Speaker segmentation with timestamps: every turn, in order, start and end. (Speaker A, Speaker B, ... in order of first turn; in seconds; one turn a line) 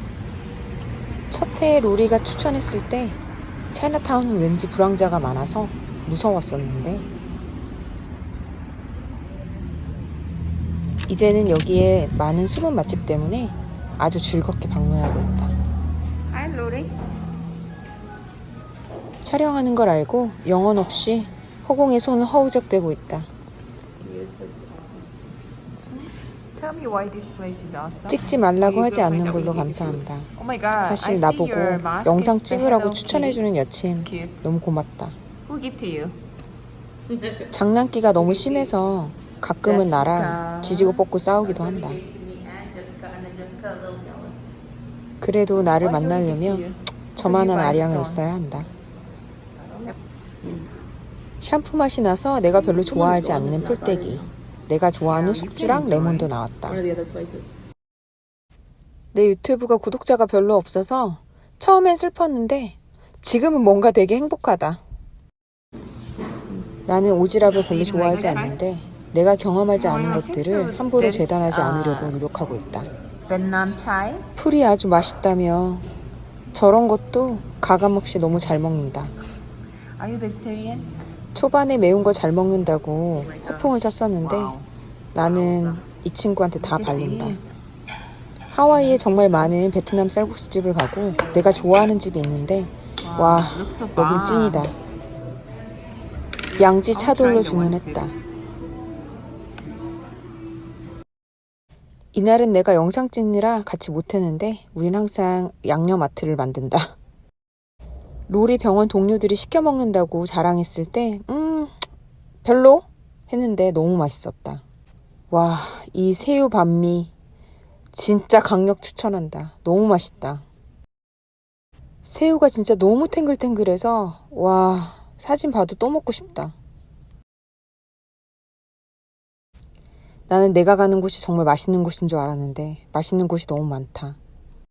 Speaker A: 1.3-3.2
Speaker A: 3.7-7.0
Speaker A: 11.1-15.5
Speaker B: 16.3-16.9
Speaker A: 19.2-23.3
Speaker B: 24.0-25.1
Speaker B: 25.9-34.4
Speaker A: 28.1-35.2
Speaker B: 35.5-36.2
Speaker A: 37.5-42.0
Speaker B: 39.6-44.5
Speaker A: 45.2-48.7
Speaker B: 45.7-48.2
Speaker A: 51.4-56.8
Speaker B: 52.6-54.3
Speaker B: 55.0-57.5
Speaker A: 59.1-64.8
Speaker A: 66.9-72.9
Speaker B: 67.4-68.6
Speaker B: 69.8-72.2
Speaker B: 73.3-74.3
Speaker A: 74.3-75.8
Speaker A: 76.5-79.1
Speaker B: 80.0-81.0
Speaker A: 81.3-84.6
Speaker B: 83.2-84.7
Speaker A: 85.1-87.4
Speaker B: 85.2-85.8
Speaker B: 86.5-87.6
Speaker A: 88.5-94.8
Speaker B: 88.7-89.8
Speaker B: 93.0-94.7
Speaker A: 96.5-98.1
Speaker B: 96.7-98.1
Speaker A: 102.1-106.9
Speaker A: 108.3-111.7
Speaker A: 112.5-114.6
Speaker A: 115.3-117.1
Speaker A: 117.9-120.5
Speaker A: 122.0-126.5
Speaker A: 130.3-134.2